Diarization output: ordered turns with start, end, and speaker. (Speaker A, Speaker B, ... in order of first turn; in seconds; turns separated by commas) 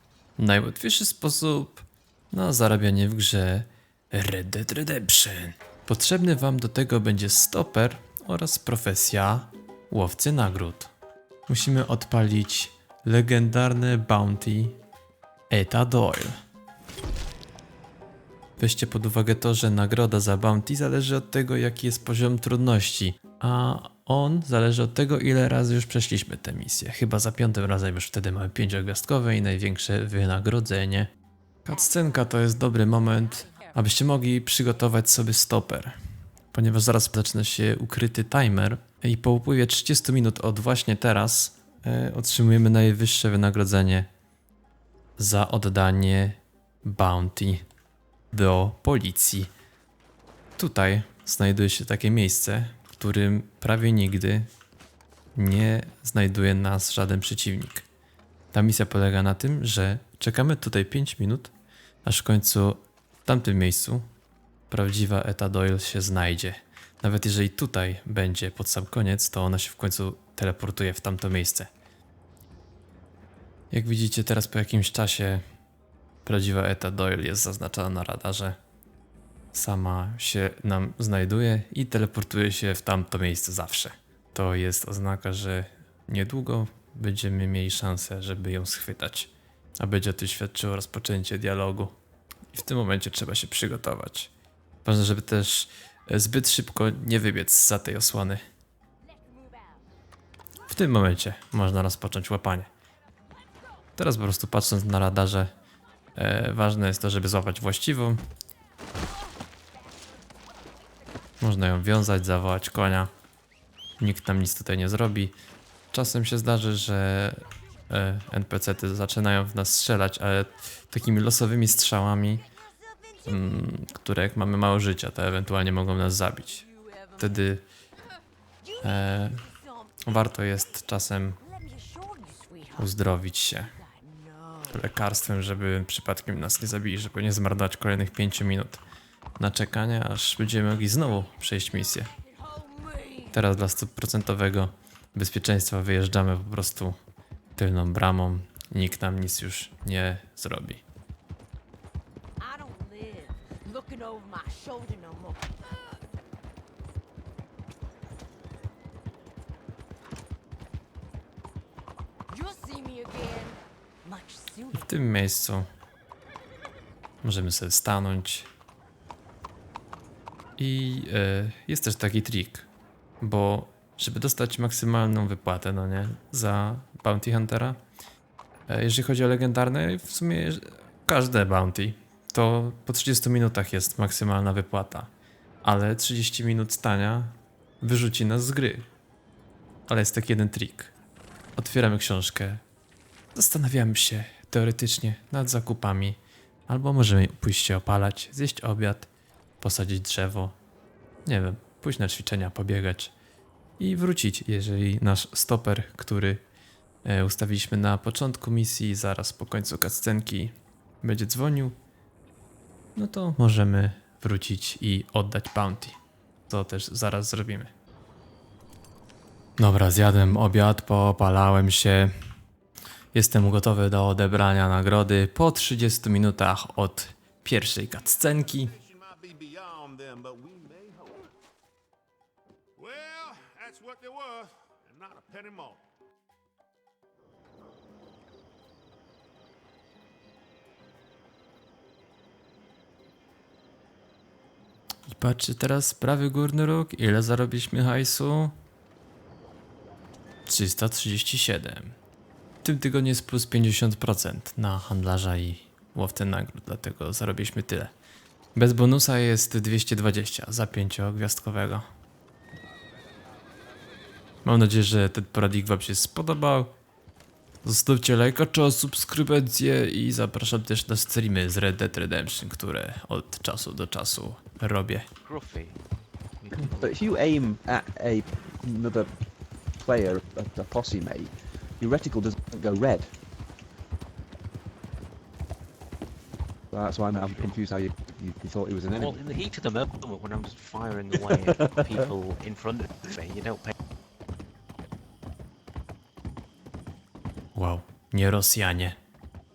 Speaker A: 0.4-10.9, Speaker A: 11.5-14.8, Speaker A: 15.5-16.4, Speaker A: 18.6-31.1, Speaker A: 31.6-36.0, Speaker B: 31.8-32.7, Speaker B: 33.4-33.7, Speaker A: 36.5-44.1, Speaker A: 45.2-47.6, Speaker A: 48.3-49.5, Speaker A: 50.6-54.5, Speaker A: 55.4-57.9, Speaker A: 58.5-61.5, Speaker A: 62.0-64.0, Speaker A: 64.7-71.7, Speaker A: 73.7-75.4, Speaker A: 76.2-78.6, Speaker A: 79.5-92.0, Speaker A: 92.5-94.3, Speaker A: 94.8-98.4, Speaker B: 99.3-99.7, Speaker A: 100.7-102.7, Speaker A: 104.0-105.5, Speaker A: 106.2-108.2, Speaker A: 111.4-113.1, Speaker A: 114.0-115.3, Speaker A: 115.9-122.5, Speaker B: 122.7-123.2, Speaker A: 123.3-126.7, Speaker B: 126.6-127.4, Speaker A: 127.2-127.6, Speaker B: 128.6-130.1, Speaker A: 128.8-129.5, Speaker A: 130.0-131.4, Speaker B: 131.4-132.9, Speaker A: 132.8-133.8, Speaker B: 133.7-134.8, Speaker A: 134.7-138.8, Speaker A: 139.4-142.1, Speaker B: 142.1-143.4, Speaker A: 143.3-147.0, Speaker A: 147.6-150.8, Speaker B: 152.4-155.7, Speaker B: 162.3-164.8, Speaker A: 164.7-165.7, Speaker A: 167.2-168.5, Speaker A: 170.6-172.7, Speaker A: 173.2-177.8, Speaker A: 178.7-185.1, Speaker A: 185.6-188.9, Speaker A: 189.9-190.9, Speaker A: 191.6-192.6, Speaker A: 193.3-199.1, Speaker A: 199.6-200.6, Speaker A: 201.3-203.1, Speaker A: 203.8-206.4, Speaker A: 207.1-211.8, Speaker A: 213.0-216.0, Speaker A: 216.5-217.7, Speaker A: 219.6-222.1, Speaker A: 223.1-228.7, Speaker C: 228.8-231.3, Speaker C: 232.8-235.8, Speaker A: 245.1-248.6, Speaker A: 250.5-252.0, Speaker A: 252.6-257.9, Speaker A: 258.6-261.9, Speaker A: 264.4-266.7, Speaker A: 267.6-275.1, Speaker D: 275.2-275.8, Speaker D: 276.4-277.0, Speaker E: 276.6-279.1, Speaker E: 279.8-283.1, Speaker E: 286.7-289.2, Speaker D: 287.2-287.5, Speaker D: 289.0-293.7, Speaker E: 291.5-292.0, Speaker A: 297.6-299.0